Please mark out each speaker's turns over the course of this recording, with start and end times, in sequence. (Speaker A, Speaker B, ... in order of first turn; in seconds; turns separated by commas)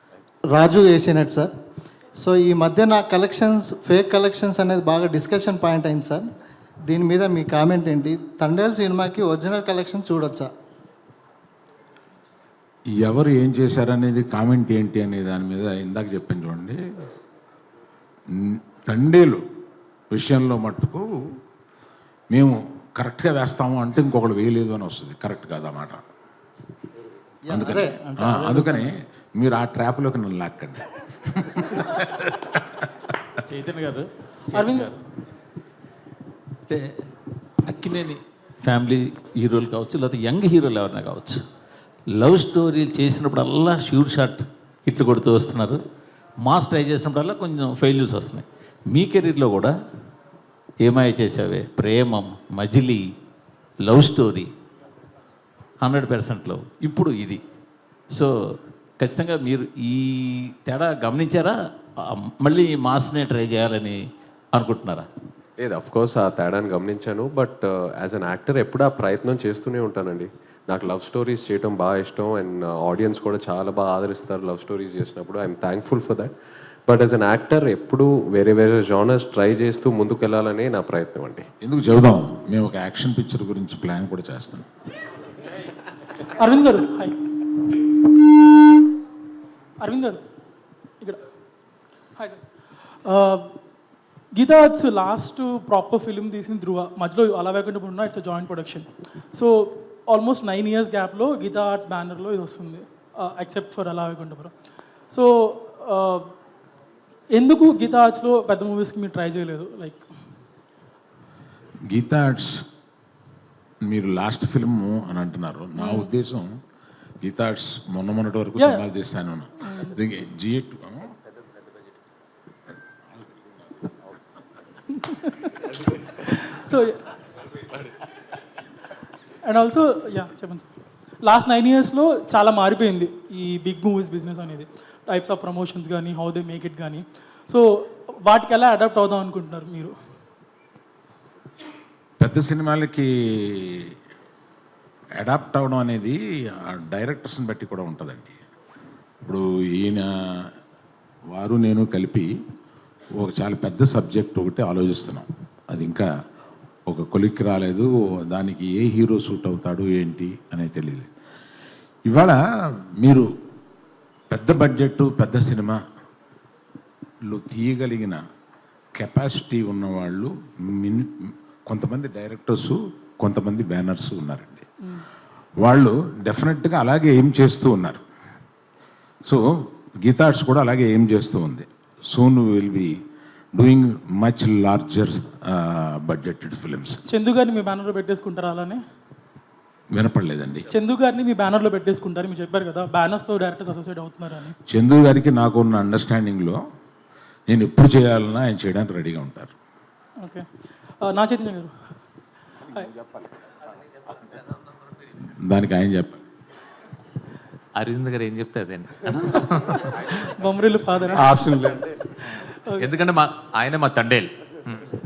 Speaker A: 0.5-1.5, Speaker A: 2.2-6.3, Speaker A: 6.9-10.5, Speaker B: 13.0-16.8, Speaker B: 18.4-19.4, Speaker B: 20.1-21.2, Speaker B: 22.3-26.0, Speaker A: 27.5-28.9, Speaker B: 27.5-32.9, Speaker C: 33.4-35.0, Speaker D: 34.5-35.0, Speaker C: 37.6-41.4, Speaker C: 42.1-45.8, Speaker C: 46.4-49.7, Speaker C: 50.8-53.0, Speaker C: 53.8-54.5, Speaker C: 55.8-57.4, Speaker C: 58.1-64.0, Speaker C: 64.5-65.1, Speaker E: 65.6-76.3, Speaker E: 76.9-81.5, Speaker B: 81.6-84.7, Speaker D: 86.3-87.2, Speaker D: 89.8-90.2, Speaker D: 93.0-93.5, Speaker D: 94.4-104.5, Speaker D: 105.1-106.3, Speaker D: 107.4-110.1, Speaker B: 111.9-112.6, Speaker B: 113.9-116.5, Speaker D: 115.8-116.1, Speaker B: 117.2-121.2, Speaker D: 118.6-118.8, Speaker D: 125.0-127.1, Speaker D: 129.5-130.7, Speaker D: 131.3-139.9, Speaker B: 142.2-143.9, Speaker B: 145.2-148.3, Speaker B: 149.2-150.5, Speaker B: 151.3-152.3, Speaker B: 153.2-156.1, Speaker B: 156.9-161.1, Speaker B: 162.1-162.4, Speaker B: 163.0-163.3, Speaker B: 164.3-165.8, Speaker B: 167.3-168.2, Speaker B: 169.0-174.7, Speaker B: 175.6-178.0, Speaker B: 179.3-183.0, Speaker B: 183.6-187.0, Speaker D: 187.1-188.8, Speaker B: 189.9-190.7, Speaker D: 190.7-194.6, Speaker B: 194.7-196.6, Speaker B: 197.5-199.5, Speaker D: 200.2-200.5, Speaker D: 201.0-201.7, Speaker B: 205.4-206.2, Speaker F: 207.8-210.1, Speaker D: 210.1-211.2, Speaker F: 211.1-212.0, Speaker D: 212.6-213.0, Speaker F: 212.8-214.9